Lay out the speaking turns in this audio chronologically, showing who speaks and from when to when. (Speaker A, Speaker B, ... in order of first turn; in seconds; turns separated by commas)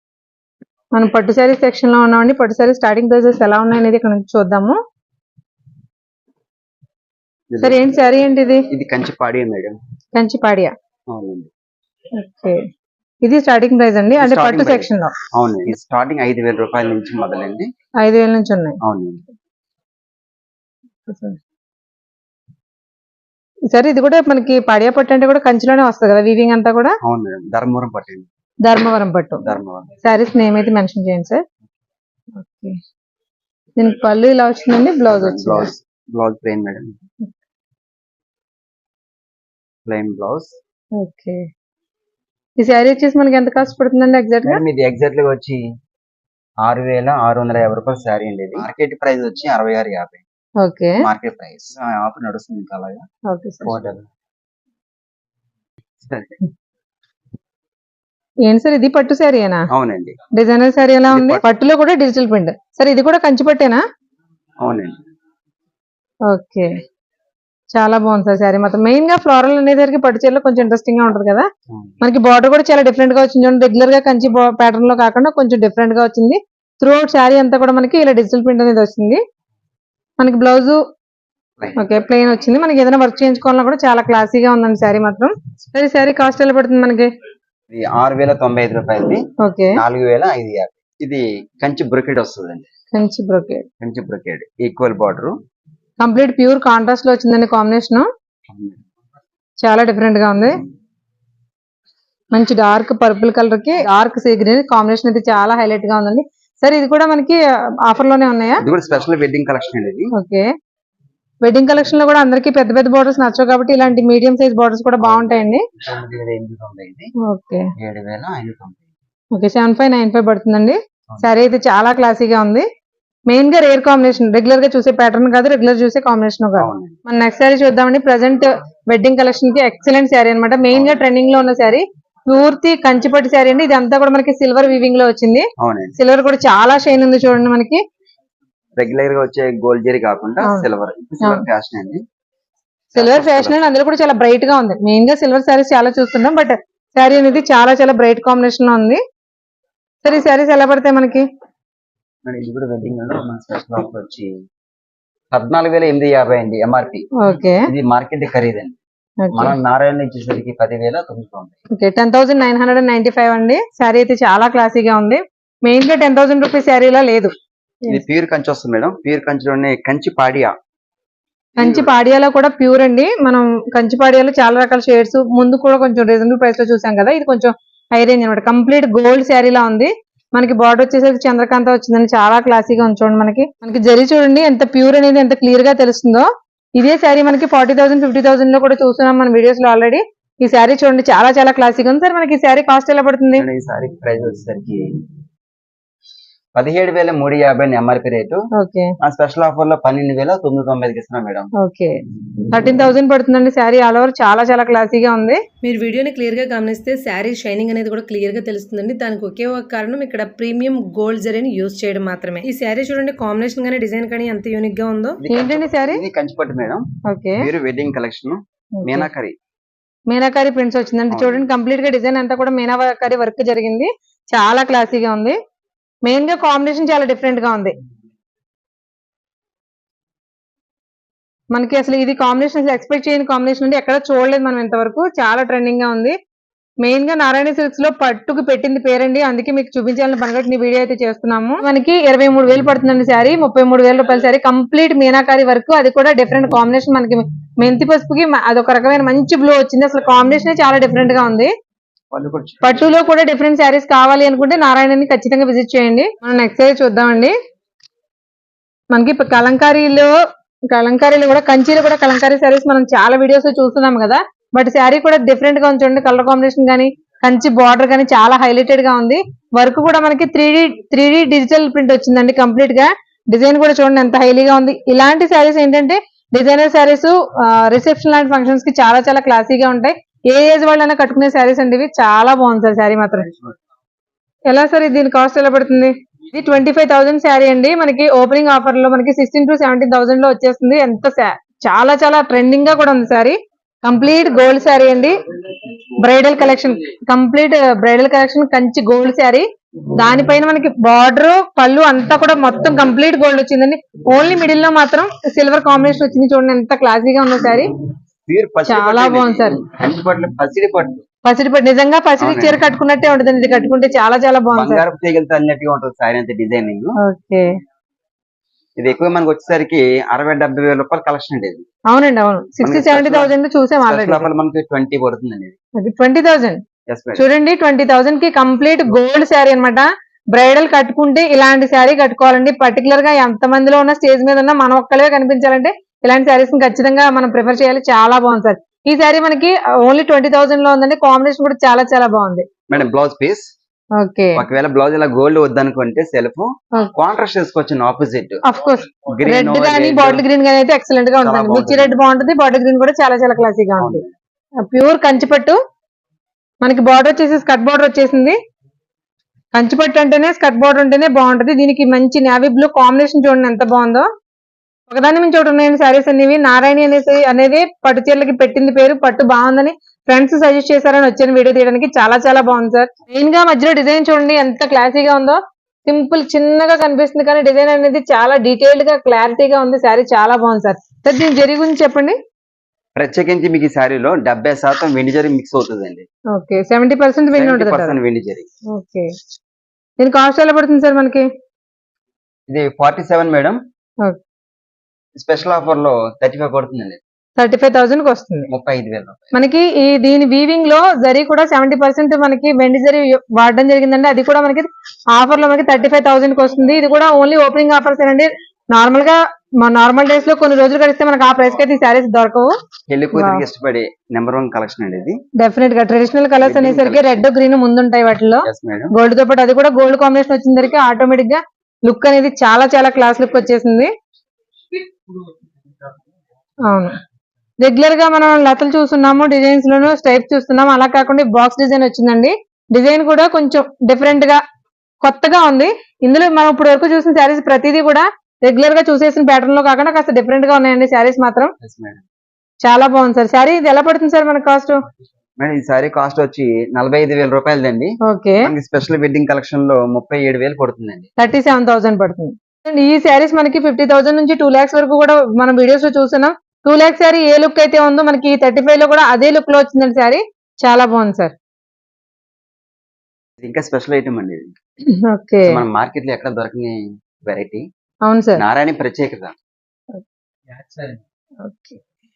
Speaker A: 0.9-4.8, Speaker B: 7.5-7.9, Speaker A: 7.6-8.7, Speaker B: 8.7-9.8, Speaker A: 10.2-10.7, Speaker B: 11.1-11.5, Speaker A: 12.2-12.6, Speaker A: 13.2-15.1, Speaker B: 14.2-17.7, Speaker A: 18.0-18.8, Speaker B: 18.8-19.2, Speaker A: 21.1-21.4, Speaker A: 23.7-27.0, Speaker B: 27.0-28.3, Speaker A: 28.6-29.4, Speaker B: 29.4-29.9, Speaker A: 30.0-31.4, Speaker A: 32.4-32.8, Speaker A: 33.8-35.7, Speaker B: 35.1-37.0, Speaker B: 39.9-40.6, Speaker A: 41.0-41.5, Speaker A: 42.6-44.6, Speaker B: 44.4-45.6, Speaker B: 46.6-50.2, Speaker A: 50.6-51.0, Speaker B: 51.0-53.0, Speaker A: 53.3-53.8, Speaker B: 53.6-54.1, Speaker B: 56.0-56.4, Speaker A: 58.5-59.7, Speaker B: 59.7-60.2, Speaker A: 60.3-63.8, Speaker B: 61.1-61.5, Speaker B: 64.6-65.0, Speaker A: 66.3-66.8, Speaker A: 67.7-71.5, Speaker A: 72.0-79.2, Speaker A: 80.2-80.8, Speaker B: 81.6-81.9, Speaker A: 81.8-87.1, Speaker B: 87.7-92.7, Speaker A: 89.4-89.8, Speaker A: 92.9-93.7, Speaker B: 93.8-95.4, Speaker A: 96.0-98.1, Speaker B: 98.5-98.8, Speaker A: 99.6-100.6, Speaker A: 102.3-108.7, Speaker B: 108.6-110.1, Speaker A: 110.1-110.5, Speaker A: 111.4-115.7, Speaker B: 115.0-117.1, Speaker A: 117.2-117.7, Speaker B: 117.8-118.8, Speaker A: 119.3-122.7, Speaker A: 123.3-137.8, Speaker B: 126.6-127.0, Speaker B: 135.6-136.0, Speaker B: 138.8-142.0, Speaker A: 140.4-140.7, Speaker A: 142.9-149.0, Speaker B: 143.0-143.6, Speaker A: 150.0-151.2, Speaker B: 152.2-154.3, Speaker B: 155.3-157.1, Speaker A: 157.2-157.7, Speaker B: 157.7-158.8, Speaker A: 159.2-159.6, Speaker B: 159.3-161.6, Speaker A: 161.8-167.3, Speaker B: 167.9-170.6, Speaker B: 171.6-171.9, Speaker A: 171.6-193.4, Speaker B: 193.4-194.9, Speaker B: 196.6-198.4, Speaker A: 198.6-198.9, Speaker B: 199.0-201.5, Speaker A: 201.6-202.0, Speaker A: 202.5-205.4, Speaker C: 205.6-215.2, Speaker B: 215.2-216.9, Speaker A: 215.3-216.0, Speaker A: 217.1-217.5, Speaker B: 217.4-219.3, Speaker A: 218.8-219.1, Speaker A: 220.1-225.4, Speaker B: 221.1-221.5, Speaker A: 226.1-227.7, Speaker A: 231.5-236.2, Speaker A: 236.8-251.5, Speaker B: 252.1-252.9, Speaker A: 252.6-257.3, Speaker A: 258.9-260.1, Speaker A: 260.7-283.3, Speaker A: 284.5-295.2, Speaker A: 296.0-307.7, Speaker B: 308.3-311.0, Speaker A: 308.7-309.6, Speaker A: 311.2-314.8, Speaker B: 312.2-312.6, Speaker B: 314.5-317.0, Speaker A: 317.0-317.5, Speaker B: 318.8-321.6, Speaker A: 321.9-324.3, Speaker B: 322.6-323.3, Speaker B: 323.9-325.6, Speaker A: 325.8-326.6, Speaker B: 326.9-327.2, Speaker A: 327.2-342.5, Speaker B: 342.7-343.5, Speaker A: 344.0-344.4, Speaker B: 344.4-348.4, Speaker A: 348.4-354.0, Speaker B: 349.1-350.3, Speaker B: 351.2-352.0, Speaker B: 353.8-354.1, Speaker A: 354.6-355.6, Speaker A: 356.6-358.4, Speaker A: 359.5-364.1, Speaker A: 364.9-382.2, Speaker B: 382.9-386.1, Speaker A: 386.3-388.0, Speaker B: 387.3-388.5, Speaker A: 388.7-389.1, Speaker A: 390.0-391.3, Speaker B: 392.5-393.6, Speaker B: 395.1-397.0, Speaker A: 397.4-398.5, Speaker B: 398.5-399.4, Speaker A: 399.3-412.5, Speaker B: 412.9-415.2, Speaker A: 413.1-413.4, Speaker A: 415.4-423.9, Speaker B: 416.4-417.2, Speaker B: 418.4-418.9, Speaker A: 426.6-426.9, Speaker A: 427.6-434.4, Speaker A: 435.0-441.5, Speaker B: 441.6-442.0, Speaker A: 442.6-444.8, Speaker B: 445.4-451.1, Speaker A: 448.0-448.5, Speaker A: 451.2-461.4, Speaker B: 463.4-464.6, Speaker A: 464.9-465.6, Speaker B: 465.5-467.6, Speaker A: 468.1-468.4, Speaker B: 468.4-469.3, Speaker A: 471.4-471.8